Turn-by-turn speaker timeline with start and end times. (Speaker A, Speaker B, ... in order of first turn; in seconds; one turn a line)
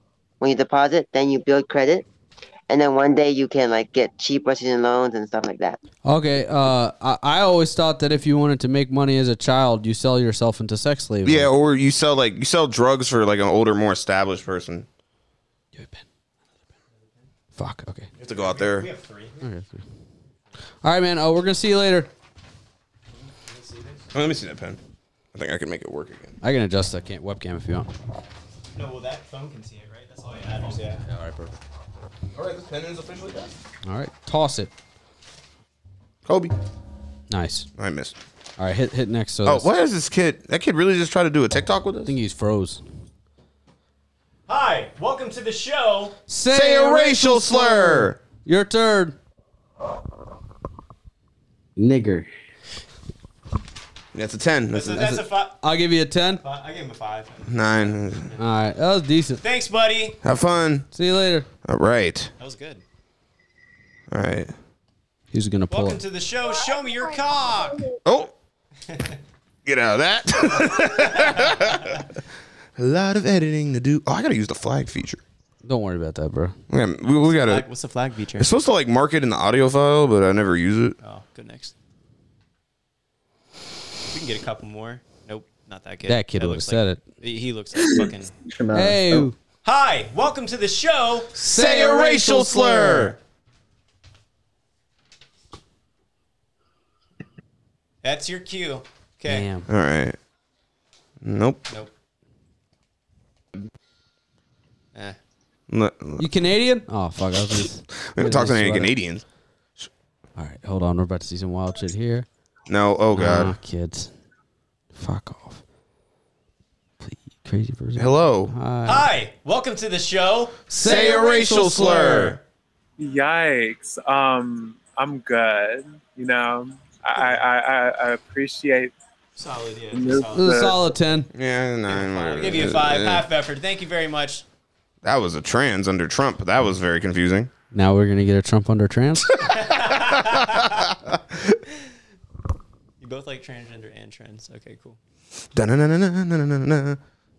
Speaker A: 0.4-2.0
Speaker A: 2.7-5.8
Speaker B: 6.0-11.5
Speaker C: 11.2-14.8
Speaker B: 15.8-16.0
Speaker B: 17.6-18.1
Speaker C: 18.2-18.9
Speaker D: 18.3-19.4
Speaker B: 19.4-19.8
Speaker B: 20.8-22.1
Speaker D: 23.3-24.0
Speaker C: 24.1-24.8
Speaker C: 25.3-26.4
Speaker B: 26.4-27.9
Speaker D: 28.7-31.0
Speaker B: 31.0-31.5
Speaker C: 32.3-33.5
Speaker B: 33.8-34.7
Speaker C: 36.2-36.5
Speaker B: 37.3-37.7
Speaker C: 37.8-38.1
Speaker B: 38.6-39.7
Speaker C: 39.4-42.1
Speaker B: 42.0-42.8
Speaker D: 44.5-46.1
Speaker B: 46.3-49.1
Speaker C: 46.5-48.2
Speaker B: 51.8-52.2
Speaker C: 54.1-55.1
Speaker D: 54.7-55.6
Speaker B: 55.0-56.4
Speaker D: 56.4-58.4
Speaker C: 57.5-58.3
Speaker B: 58.4-59.4
Speaker D: 59.4-60.2
Speaker C: 60.2-60.9
Speaker B: 60.9-61.5
Speaker C: 61.6-62.3
Speaker D: 62.4-62.8
Speaker C: 64.1-64.5
Speaker B: 65.3-66.0
Speaker D: 65.7-67.8
Speaker C: 68.0-68.3
Speaker D: 68.9-69.2
Speaker C: 69.6-71.9
Speaker D: 71.1-71.9
Speaker C: 72.8-75.2
Speaker B: 75.6-76.5
Speaker C: 76.7-77.6
Speaker D: 77.2-78.5
Speaker C: 78.4-81.0
Speaker D: 81.0-81.7
Speaker D: 84.1-88.3
Speaker B: 86.1-87.0
Speaker B: 88.7-89.3
Speaker D: 89.6-93.1
Speaker C: 91.3-93.1
Speaker B: 91.5-93.0
Speaker D: 98.0-99.5
Speaker B: 99.3-99.7
Speaker C: 99.7-100.2
Speaker C: 101.2-101.6
Speaker C: 105.7-106.2
Speaker B: 106.2-108.9
Speaker C: 108.0-109.2
Speaker B: 110.3-112.2
Speaker C: 112.7-113.5
Speaker B: 113.1-114.1
Speaker B: 114.9-115.6
Speaker B: 117.0-119.1
Speaker C: 118.0-118.5
Speaker D: 118.8-122.4
Speaker B: 120.7-121.4
Speaker C: 120.8-122.4
Speaker E: 123.0-128.9
Speaker D: 129.4-130.5
Speaker E: 129.9-130.8
Speaker B: 130.3-131.3
Speaker C: 131.3-133.2
Speaker D: 131.9-134.4
Speaker C: 135.0-137.5
Speaker B: 137.7-139.3
Speaker D: 139.4-140.8
Speaker C: 140.6-141.5
Speaker D: 143.0-145.0
Speaker C: 145.5-147.0